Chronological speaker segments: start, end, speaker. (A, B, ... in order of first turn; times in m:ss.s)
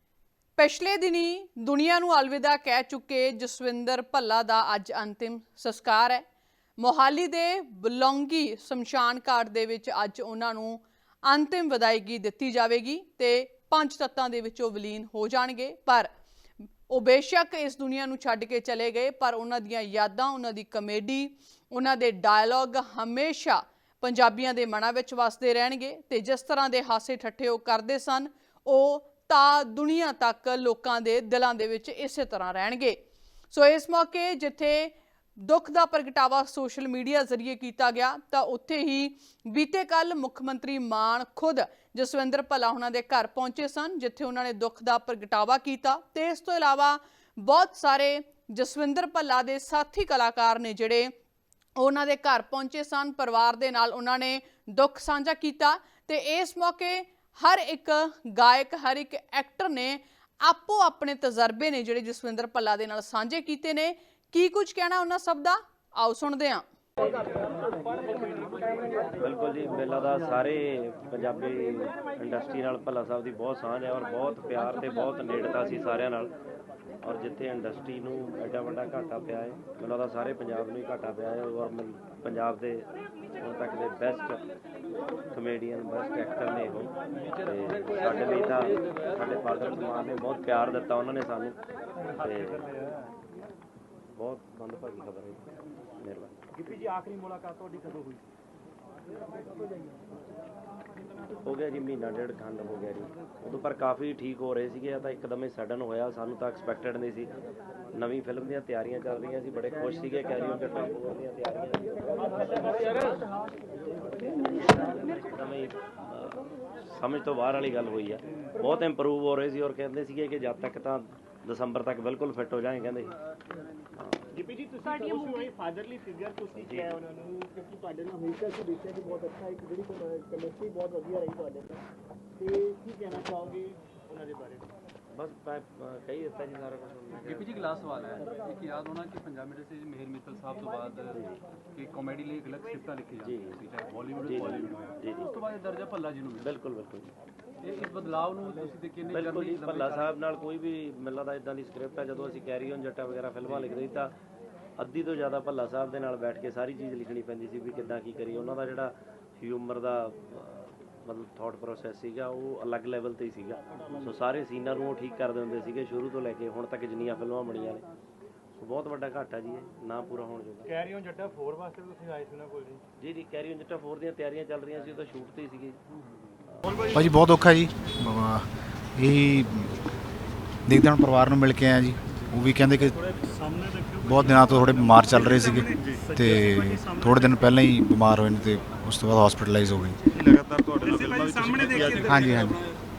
0:00.6-0:06.2 A
0:06.8-0:16.1 A
0:16.9-0:33.0 A
0:33.5-0:51.1 A
0:51.8-1:06.6 A
1:09.1-1:16.4 B
1:17.0-1:24.4 B
1:25.3-1:31.6 B
1:32.2-1:32.7 B
1:34.2-1:36.8 B
1:36.8-1:38.2 C
1:41.4-1:47.3 B
1:47.9-1:53.1 B
1:54.4-2:03.1 B
2:04.0-2:04.2 B
2:04.3-2:11.7 C
2:06.5-2:07.0 B
2:12.4-2:14.6 C
2:15.1-2:17.8 B
2:17.2-2:21.2 D
2:21.7-2:26.6 D
2:23.2-2:23.6 B
2:24.2-2:25.3 B
2:26.4-2:27.1 B
2:27.6-2:30.2 D
2:29.1-2:34.2 B
2:34.8-2:47.9 B
2:48.6-2:50.7 B
2:50.7-2:52.8 C
2:53.0-2:55.8 B
2:56.9-2:59.7 E
3:00.7-3:03.0 E
3:03.4-3:06.0 F
3:04.0-3:10.0 E
3:10.1-3:12.6 F
3:12.0-3:12.6 E